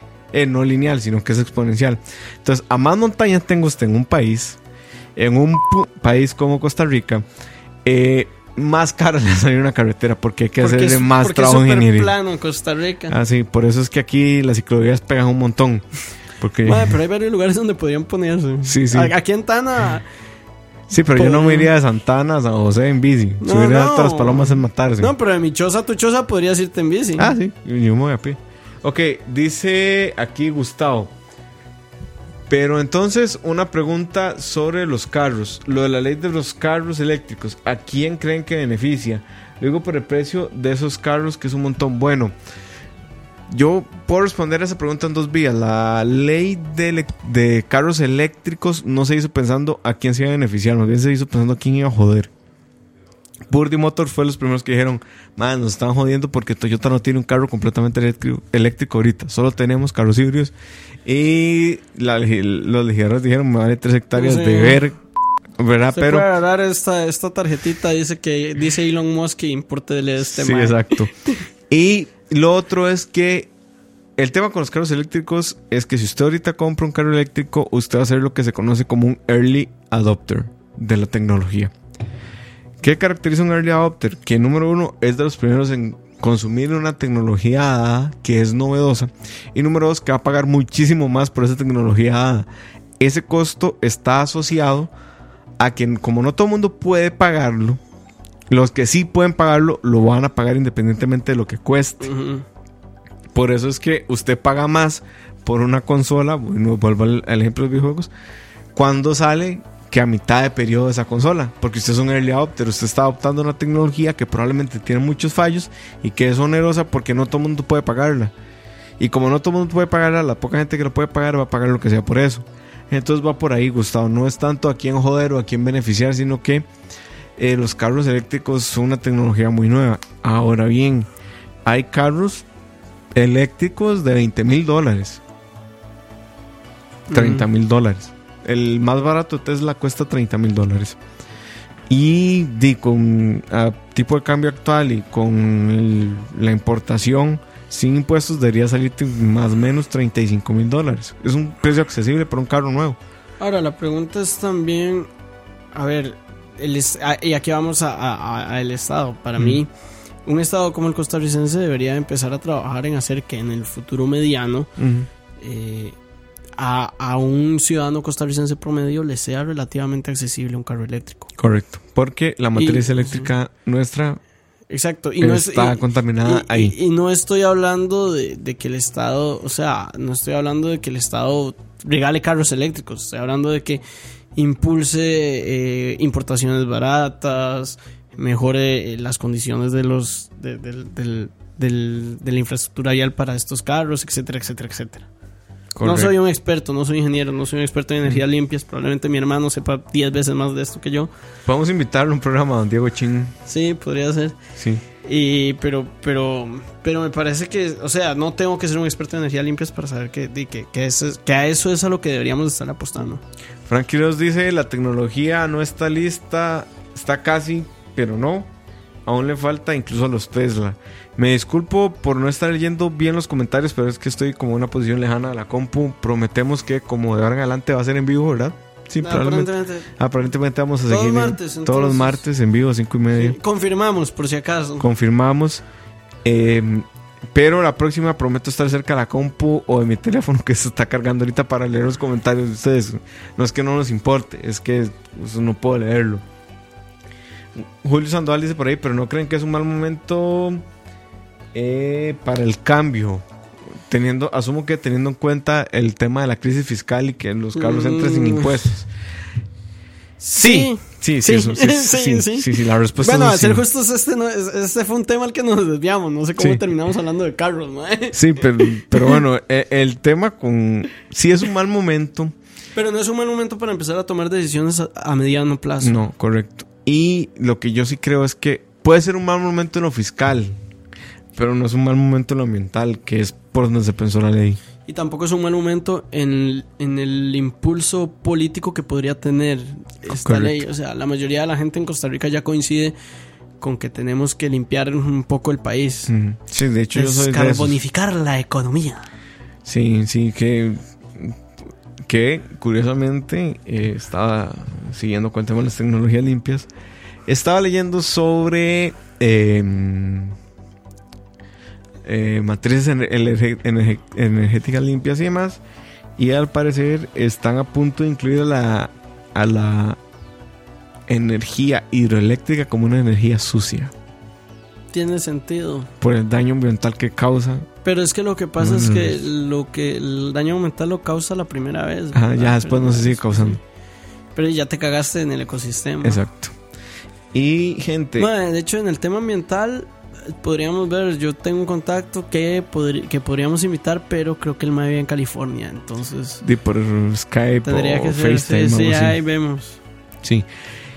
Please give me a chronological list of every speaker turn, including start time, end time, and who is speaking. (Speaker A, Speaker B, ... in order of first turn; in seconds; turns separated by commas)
Speaker A: 0.3-4.6, Speaker A: 5.2-7.2, Speaker A: 7.8-12.1, Speaker B: 10.6-13.2, Speaker A: 13.1-15.9, Speaker A: 16.4-16.9, Speaker B: 16.6-20.1, Speaker A: 18.6-19.1, Speaker A: 20.9-25.1, Speaker B: 21.1-21.7, Speaker B: 23.4-27.3, Speaker A: 27.2-31.1, Speaker A: 32.5-42.3, Speaker A: 43.5-52.3, Speaker A: 53.5-60.5, Speaker A: 61.0-65.0, Speaker B: 64.2-64.8, Speaker A: 65.6-66.3, Speaker B: 65.9-71.4, Speaker A: 70.2-71.1, Speaker A: 71.7-73.5, Speaker A: 74.2-81.7, Speaker A: 82.8-92.5, Speaker A: 93.0-94.9, Speaker A: 95.6-97.8, Speaker A: 98.5-102.1, Speaker B: 102.0-102.5, Speaker A: 103.3-108.1, Speaker A: 108.8-118.3, Speaker A: 119.0-126.7, Speaker A: 127.4-131.1, Speaker A: 131.7-132.4, Speaker A: 133.2-135.2, Speaker B: 137.1-137.5, Speaker A: 137.1-141.0, Speaker A: 141.9-153.0, Speaker B: 153.4-155.1, Speaker B: 155.7-159.7, Speaker B: 160.3-164.7, Speaker A: 164.8-165.1, Speaker B: 165.4-166.0, Speaker B: 166.6-171.3, Speaker A: 171.4-174.2, Speaker B: 172.6-173.3, Speaker B: 174.7-183.8, Speaker A: 175.2-176.8, Speaker B: 184.3-195.1, Speaker A: 195.8-196.1, Speaker B: 195.8-201.1, Speaker A: 201.5-203.3, Speaker B: 203.5-204.4, Speaker A: 204.6-204.8, Speaker B: 205.0-213.2, Speaker A: 213.7-218.5, Speaker A: 219.1-233.4, Speaker B: 229.0-229.9, Speaker B: 230.9-232.2, Speaker B: 233.1-234.9, Speaker A: 234.8-235.6, Speaker A: 236.2-246.2, Speaker A: 247.6-250.6, Speaker A: 251.5-253.3, Speaker A: 253.9-258.9, Speaker B: 257.6-258.6, Speaker B: 260.2-269.2, Speaker A: 260.4-263.6, Speaker A: 268.1-272.4, Speaker B: 272.8-276.0, Speaker A: 275.8-280.6, Speaker A: 281.4-284.6, Speaker B: 284.9-292.9, Speaker A: 290.1-290.6, Speaker B: 293.6-296.1, Speaker A: 296.1-297.8, Speaker B: 296.9-299.1, Speaker A: 299.6-301.4, Speaker A: 302.0-306.7, Speaker A: 307.3-310.4, Speaker A: 312.0-315.6, Speaker A: 316.2-320.0, Speaker A: 321.1-323.9, Speaker B: 324.9-325.9, Speaker A: 326.0-327.7, Speaker B: 327.8-333.6, Speaker A: 328.6-329.2, Speaker A: 332.1-333.6, Speaker B: 334.4-336.2, Speaker A: 336.0-336.6, Speaker A: 337.3-338.3, Speaker B: 338.2-346.4, Speaker A: 346.4-349.2, Speaker B: 347.6-349.8